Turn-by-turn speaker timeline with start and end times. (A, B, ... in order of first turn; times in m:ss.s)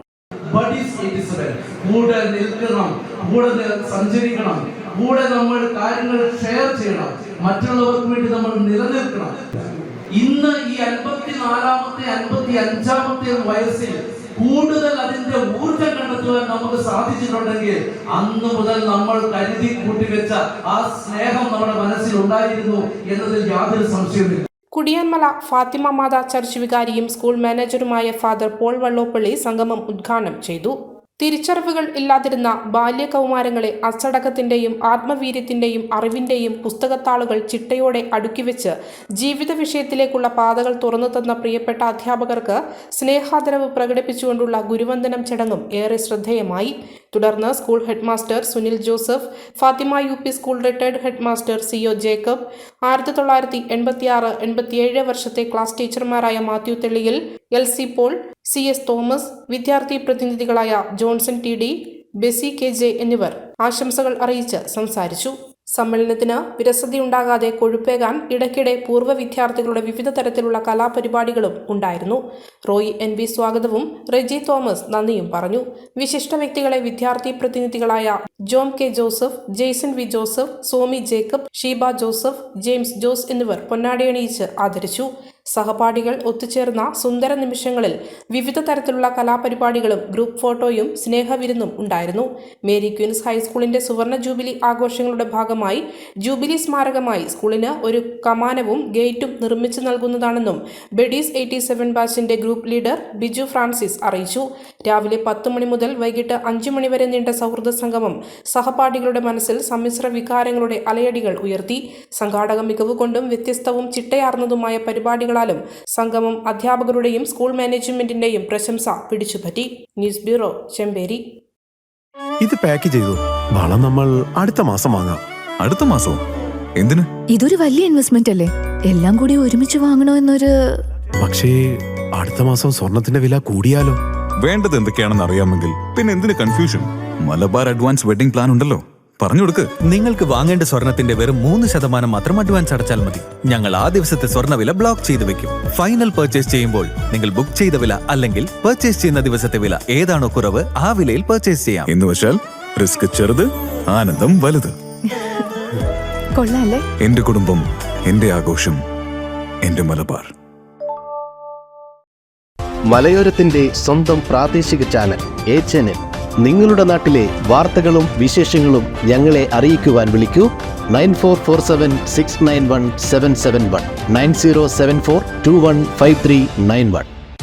0:00.5-0:09.4 A
0:10.1-0:24.4 A
0:24.7-2:01.2 B
2:02.4-2:05.2 C
2:05.6-2:06.2 D
2:06.8-2:07.1 D
2:07.4-2:10.5 E
2:11.2-2:14.0 C
2:14.4-2:19.7 D
2:19.8-2:31.9 F
2:31.8-2:34.7 D
2:36.4-2:36.8 E
2:37.0-2:38.8 D
2:39.6-2:40.3 D
2:42.8-2:57.1 G